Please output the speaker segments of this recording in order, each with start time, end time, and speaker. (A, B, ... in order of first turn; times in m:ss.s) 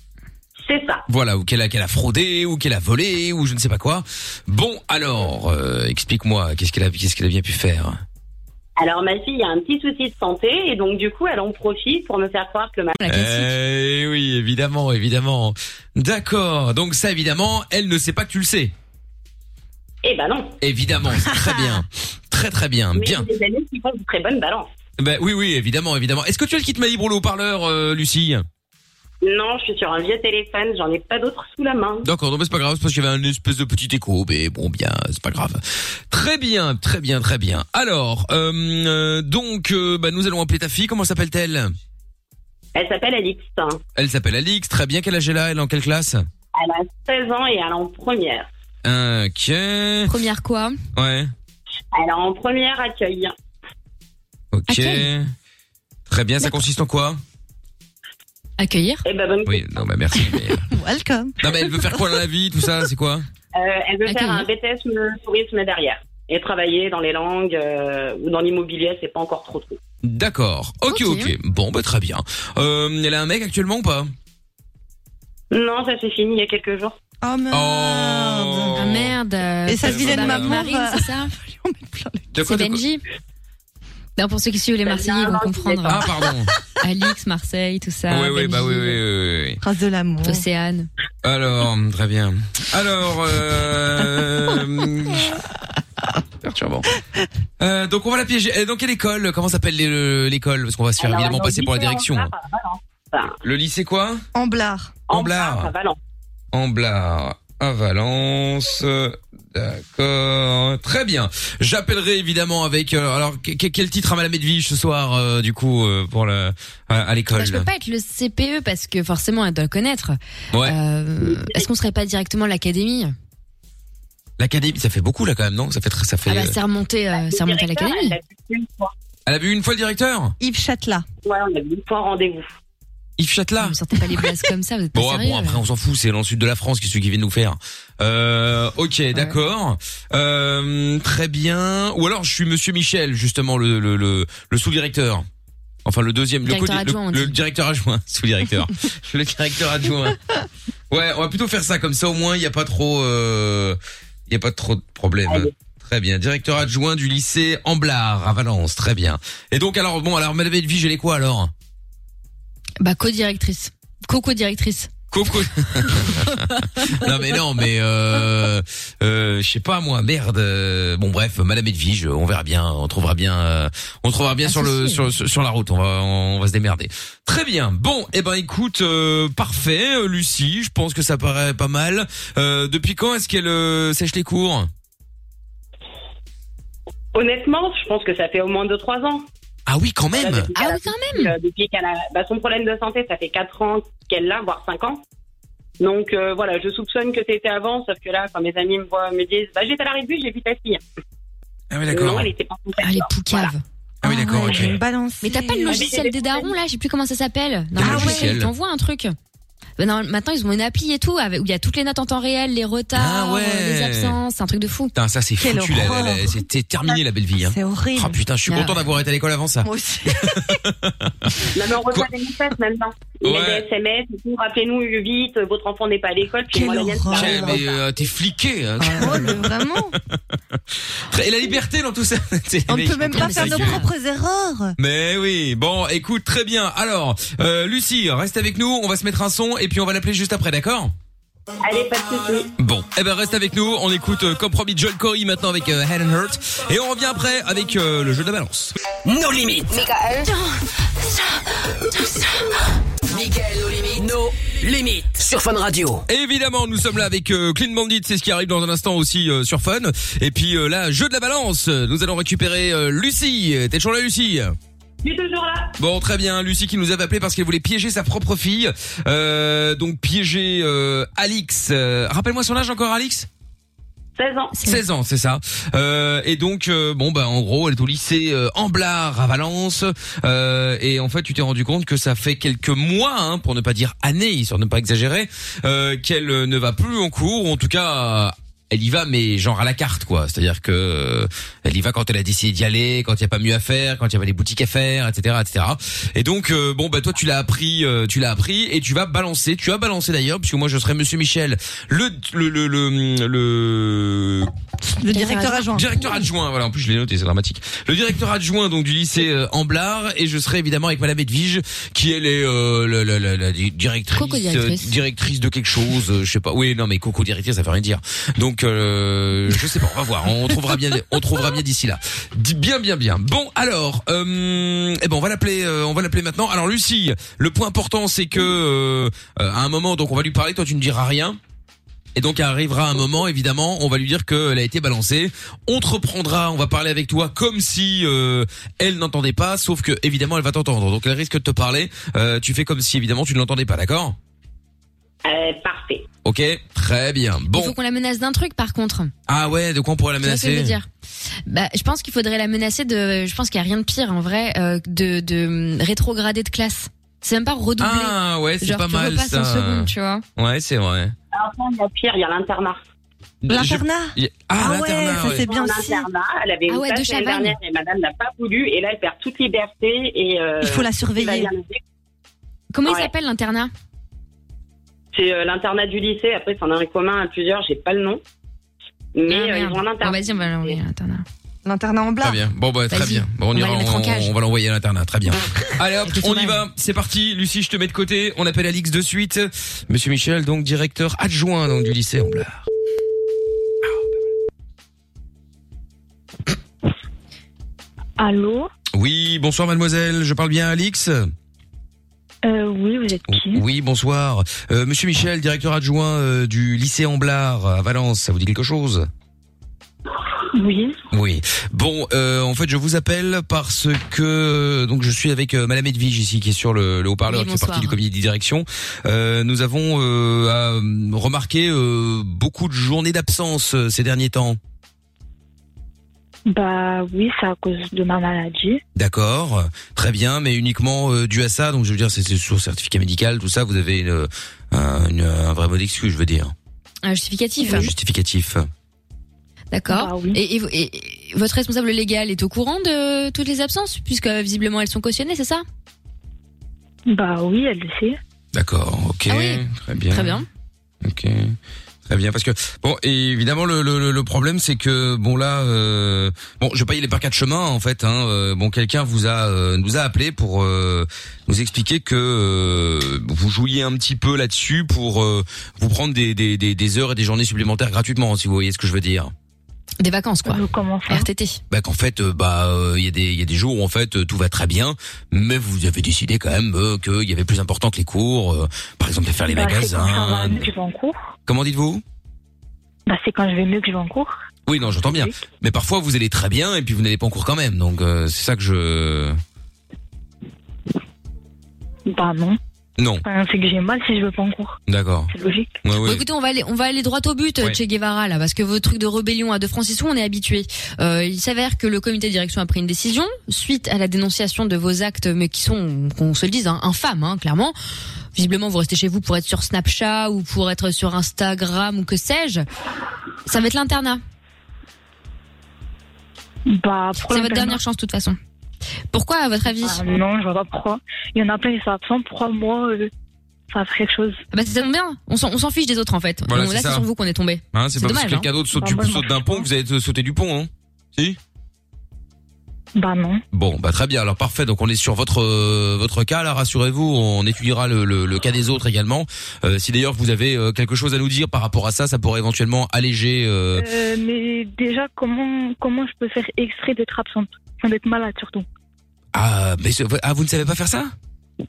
0:00.6-0:01.0 A
0:01.1-0:08.0 B
0:08.8-0:13.0 A
0:13.0-0:13.5 C
0:13.1-0:18.7 B
0:20.0-0:20.6 A
0:20.6-0:23.2 B
0:21.3-0:21.8 D
0:22.9-0:24.7 A
0:25.0-0:28.4 B
0:29.2-0:32.1 A
0:32.0-0:41.7 B
0:42.7-0:43.8 A
0:44.0-0:46.2 B
0:46.5-0:48.5 A
0:48.8-0:50.1 B
0:50.1-0:50.8 C
0:50.9-0:51.3 B
0:51.9-0:53.3 A
0:54.5-0:55.3 B
0:54.7-0:55.1 C
0:56.1-0:57.2 B
0:58.6-0:59.0 C
0:59.0-0:59.7 A
0:59.4-1:00.7 B
1:00.7-1:01.8 D
1:01.4-1:03.2 B
1:03.5-1:09.8 A
1:04.0-1:04.5 C
1:10.0-1:14.1 B
1:10.9-1:11.3 C
1:15.5-1:17.0 A
1:17.2-1:18.8 D
1:17.5-1:19.2 B
1:18.8-1:21.3 C
1:19.7-1:22.3 D
1:19.8-1:20.6 B
1:22.3-1:22.8 B
1:22.4-1:23.0 C
1:24.2-1:26.1 C
1:24.8-1:26.0 A
1:25.9-1:26.5 B
1:26.8-1:29.0 C
1:28.1-1:29.6 B
1:29.6-1:30.4 D
1:30.2-1:30.9 C
1:31.2-1:35.4 B
1:36.4-1:36.8 B
1:37.6-1:42.3 B
1:41.0-1:43.4 A
1:43.4-1:44.2 B
1:44.3-1:45.0 D
1:45.1-1:46.0 A
1:45.1-1:45.7 B
1:46.5-1:57.7 B
1:57.3-2:03.1 C
2:00.5-2:00.8 B
2:01.2-2:01.7 A
2:04.4-2:06.6 B
2:06.2-2:08.2 C
2:07.1-2:08.9 A
2:09.2-2:10.4 B
2:10.4-2:11.0 D
2:11.2-2:12.5 A
2:13.2-2:13.8 B
2:13.6-2:15.6 C
2:14.9-2:25.2 B
2:25.8-2:30.2 B
2:26.4-2:27.3 C
2:30.9-2:33.8 B
2:34.3-2:41.5 B
2:42.8-2:44.9 C
2:45.1-3:04.7 B
2:54.4-2:55.0 C
3:07.1-3:09.2 A
3:09.7-3:10.5 B
3:10.1-3:15.0 A
3:10.5-3:11.3 C
3:15.8-3:20.8 A
3:21.7-3:22.3 B
3:21.9-3:23.5 A
3:22.8-3:23.6 C
3:24.0-3:24.8 B
3:24.0-3:25.8 D
3:25.2-3:29.1 C
3:25.7-3:26.5 A
3:27.8-3:28.5 B
3:27.8-3:28.4 D
3:29.8-3:34.9 C
3:32.9-3:34.2 B
3:34.9-3:39.7 B
3:35.4-3:36.4 D
3:37.4-3:38.2 D
3:38.5-3:38.8 C
3:39.6-3:40.6 D
3:40.2-3:41.3 B
3:41.5-3:47.8 A
3:43.2-3:43.6 B
3:46.5-3:47.6 D
3:47.1-3:49.6 B
3:48.9-3:50.0 D
3:50.9-3:53.8 B
3:52.7-3:54.8 D
3:53.1-3:53.9 C
3:54.8-4:00.9 B
4:01.6-4:02.5 A
4:02.6-4:08.7 B
4:09.0-4:10.3 E
4:11.9-4:12.3 E
4:13.1-4:16.0 E
4:16.1-4:24.6 B
4:25.0-4:25.7 A
4:25.8-4:33.3 B
4:34.2-4:34.5 A
4:34.5-4:34.8 C
4:34.6-5:04.5 B
5:04.9-5:06.0 D
5:05.1-5:05.7 C
5:05.7-5:31.4 B
5:14.1-5:14.9 C
5:32.1-5:44.2 B
5:45.2-5:46.0 A
5:46.2-5:47.7 B
5:47.5-5:49.1 C
5:49.3-5:50.8 B
5:50.2-5:50.9 C
5:51.5-6:00.2 C
5:57.8-6:01.1 B
6:01.3-6:02.8 A
6:03.4-6:05.5 B
6:03.5-6:06.1 D
6:05.2-6:11.8 A
6:06.7-6:07.6 C
6:10.6-6:11.5 D
6:12.7-6:13.7 C
6:12.8-6:13.1 A
6:15.1-6:18.2 A
6:19.1-6:20.8 A
6:19.3-6:21.2 C
6:21.6-6:22.4 D
6:22.2-6:32.6 B
6:22.9-6:24.3 C
6:26.0-6:26.6 C
6:38.2-6:38.7 F
6:38.9-6:41.3 B
6:42.4-6:43.6 F
6:43.3-6:49.1 B
6:50.5-6:51.0 F
6:51.1-7:04.6 B
6:57.2-6:58.0 C
7:06.5-7:08.8 F
7:08.9-7:16.5 B
7:17.0-7:17.9 C
7:17.6-7:18.7 B
7:19.7-7:25.6 C
7:19.9-7:20.4 F
7:27.1-7:28.2 F
7:28.5-7:30.4 B
7:29.3-7:30.4 C
7:31.0-7:49.3 B
7:50.0-7:51.6 C
7:50.4-7:51.3 F
7:51.7-8:00.7 B
7:59.5-8:01.1 F
8:01.5-8:02.0 B
8:03.1-8:05.4 F
8:04.7-8:09.4 B
8:12.1-8:12.6 F
8:13.0-8:13.2 B
8:13.2-8:14.8 F
8:14.9-8:15.3 B
8:15.3-8:15.7 F
8:15.8-8:16.2 B
8:16.0-8:27.7 C
8:28.3-8:32.6 C
8:33.4-8:34.2 C
8:36.7-8:37.8 F
8:37.2-8:38.4 C
8:39.1-8:40.0 C
8:39.8-8:43.1 F
8:43.7-8:44.4 F
8:44.5-8:48.5 C
8:46.5-8:47.0 B
8:47.7-8:51.4 B
8:48.7-8:49.6 F
8:53.0-8:53.4 F
8:53.5-9:03.9 B
9:03.7-9:08.6 F
9:09.3-9:11.1 B